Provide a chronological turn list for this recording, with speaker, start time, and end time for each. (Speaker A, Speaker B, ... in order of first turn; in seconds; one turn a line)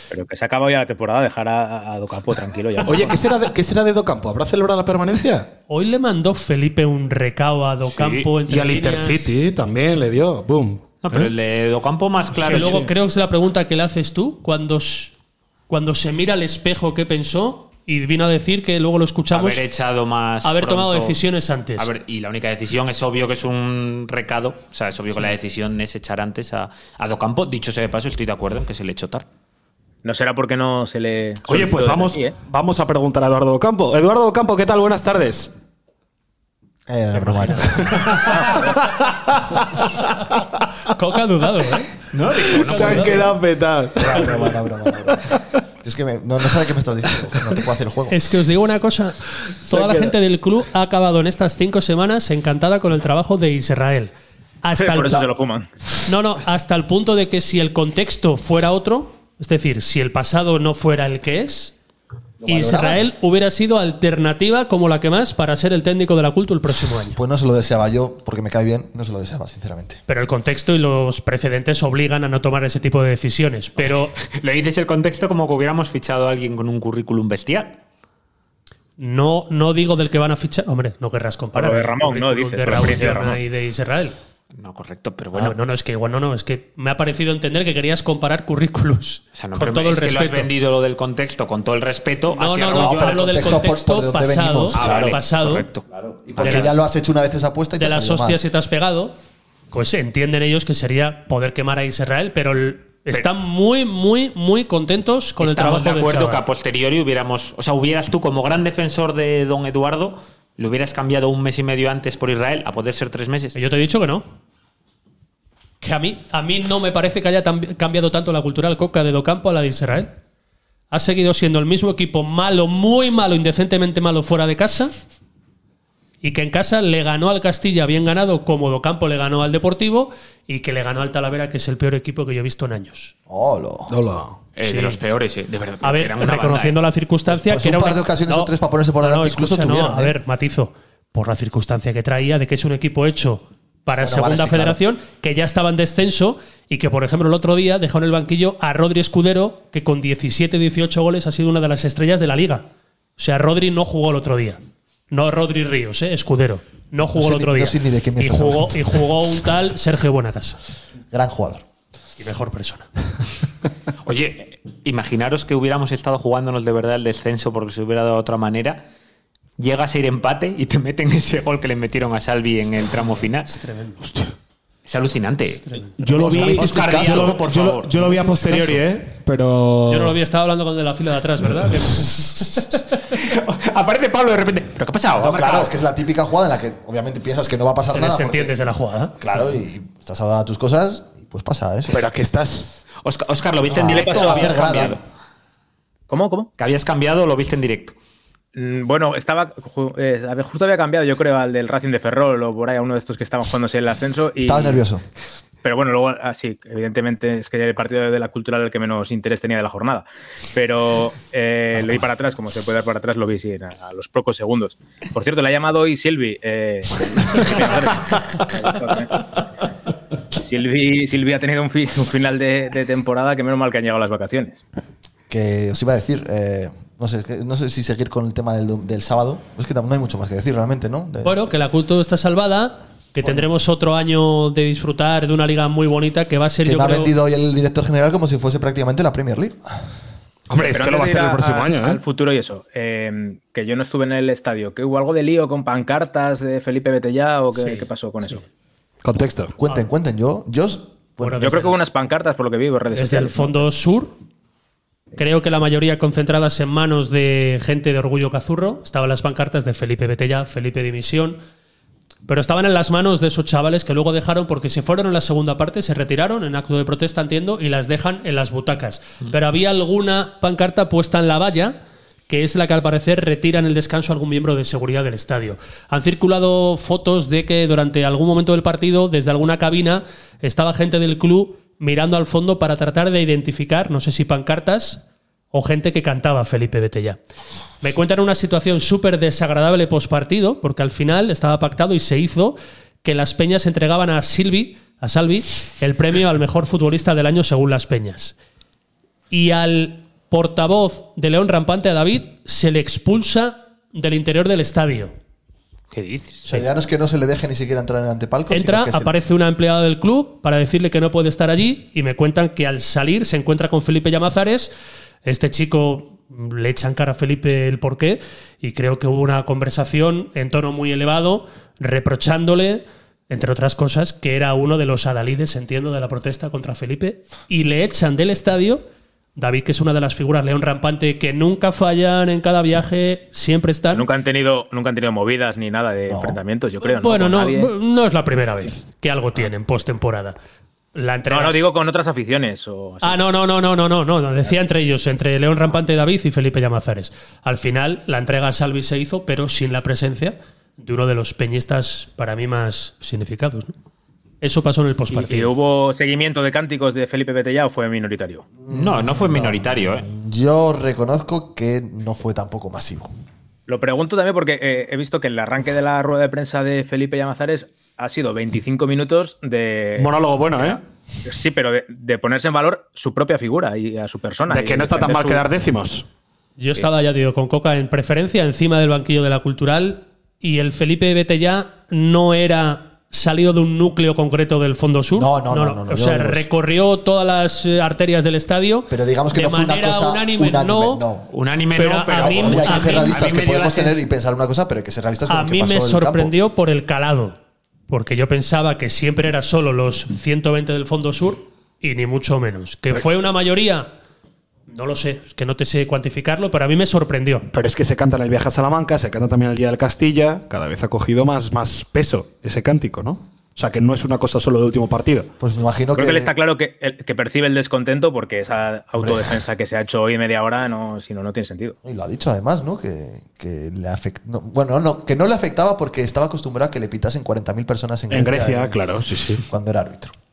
Speaker A: 0.1-3.3
Speaker B: 2.8-5.5
Speaker C: 5.7-9.5
Speaker D: 7.9-8.3
Speaker B: 8.5-11.3
Speaker D: 11.0-12.8
Speaker C: 12.4-15.1
Speaker B: 12.4-12.9
Speaker C: 15.7-19.6
Speaker D: 19.3-21.2
Speaker C: 20.4-21.9
Speaker D: 21.8-29.2
Speaker A: 30.0-32.4
Speaker B: 31.5-35.5
Speaker E: 36.9-38.3
Speaker B: 38.9-39.6
Speaker C: 40.9-41.9
Speaker D: 42.1-43.3
Speaker C: 42.5-43.3
Speaker B: 42.6-44.6
Speaker E: 44.0-48.2
Speaker C: 48.1-54.1
Speaker B: 49.6-50.1
Speaker C: 54.6-55.2
Speaker A: 54.7-55.7
Speaker C: 56.0-61.7
Speaker E: 62.4-63.0
Speaker C: 62.5-67.2
Speaker E: 67.1-70.0
Speaker C: 70.1-74.1
Speaker D: 74.2-77.8
Speaker C: 79.0-84.1
Speaker A: 81.5-83.4
Speaker D: 84.5-85.6
Speaker C: 85.3-90.5
Speaker D: 89.3-93.5
Speaker C: 92.3-95.7
Speaker E: 92.7-95.2
Speaker D: 94.7-96.7
Speaker E: 96.0-98.4
Speaker C: 96.4-96.7
Speaker C: 97.8-99.1
Speaker C: 99.7-106.4
Speaker D: 105.4-113.5
Speaker C: 113.5-114.2
Speaker C: 115.8-120.2
Speaker C: 120.9-124.9
Speaker C: 126.2-133.1
Speaker E: 133.3-133.9
Speaker B: 133.9-134.4
Speaker D: 134.6-136.8
Speaker C: 134.6-135.0
Speaker C: 135.8-152.7
Speaker E: 137.3-140.2
Speaker E: 144.0-144.8
Speaker C: 153.2-154.6
Speaker C: 155.1-160.6
Speaker E: 157.1-159.0
Speaker E: 161.1-161.6
Speaker C: 162.2-162.9
Speaker D: 164.1-168.8
Speaker D: 169.6-173.5
Speaker C: 173.5-174.0
Speaker B: 174.0-174.3
Speaker D: 174.8-175.6
Speaker C: 175.6-175.9
Speaker B: 176.0-180.2
Speaker E: 176.0-177.4
Speaker D: 176.3-177.9
Speaker E: 178.0-178.8
Speaker C: 179.9-182.8
Speaker D: 183.2-185.7
Speaker E: 185.2-188.6
Speaker C: 187.9-189.2
Speaker E: 189.2-192.0
Speaker B: 191.9-192.7
Speaker D: 193.0-195.0
Speaker E: 193.7-195.0
Speaker A: 193.8-194.9
Speaker A: 196.1-196.5
Speaker D: 196.6-197.9
Speaker A: 198.5-204.8
Speaker E: 204.4-205.0
Speaker A: 205.6-219.2
Speaker A: 220.4-224.6
Speaker E: 225.3-231.4
Speaker C: 231.2-237.1
Speaker E: 236.6-239.8
Speaker B: 240.5-242.0
Speaker A: 240.6-248.4
Speaker C: 247.5-248.4
Speaker B: 249.0-249.5
Speaker E: 249.6-251.5
Speaker C: 251.2-251.8
Speaker A: 251.4-253.6
Speaker C: 252.9-254.2
Speaker C: 255.2-261.4
Speaker C: 262.3-271.8
Speaker C: 272.3-287.2
Speaker C: 287.8-298.4
Speaker C: 299.3-305.1
Speaker D: 305.9-306.4
Speaker E: 306.4-309.1
Speaker C: 308.5-314.7
Speaker C: 315.2-328.8
Speaker C: 329.4-334.1
Speaker A: 333.9-337.7
Speaker E: 336.1-336.4
Speaker C: 336.8-340.4
Speaker C: 340.9-341.6
Speaker A: 341.3-343.2
Speaker C: 343.0-353.7
Speaker C: 354.4-355.5
Speaker A: 355.1-358.4
Speaker E: 358.6-363.1
Speaker D: 358.7-360.1
Speaker A: 363.7-375.5
Speaker B: 370.0-370.8
Speaker B: 374.5-376.1
Speaker C: 376.6-391.0
Speaker E: 385.1-386.5
Speaker E: 388.9-391.3
Speaker D: 391.3-394.0
Speaker C: 391.7-393.2
Speaker E: 392.1-396.3
Speaker C: 395.3-397.4
Speaker C: 397.9-403.9
Speaker C: 404.7-407.5
Speaker B: 407.5-415.3
Speaker E: 415.4-416.3
Speaker A: 415.9-421.8
Speaker E: 421.8-428.8
Speaker B: 428.1-429.4
Speaker E: 429.4-430.1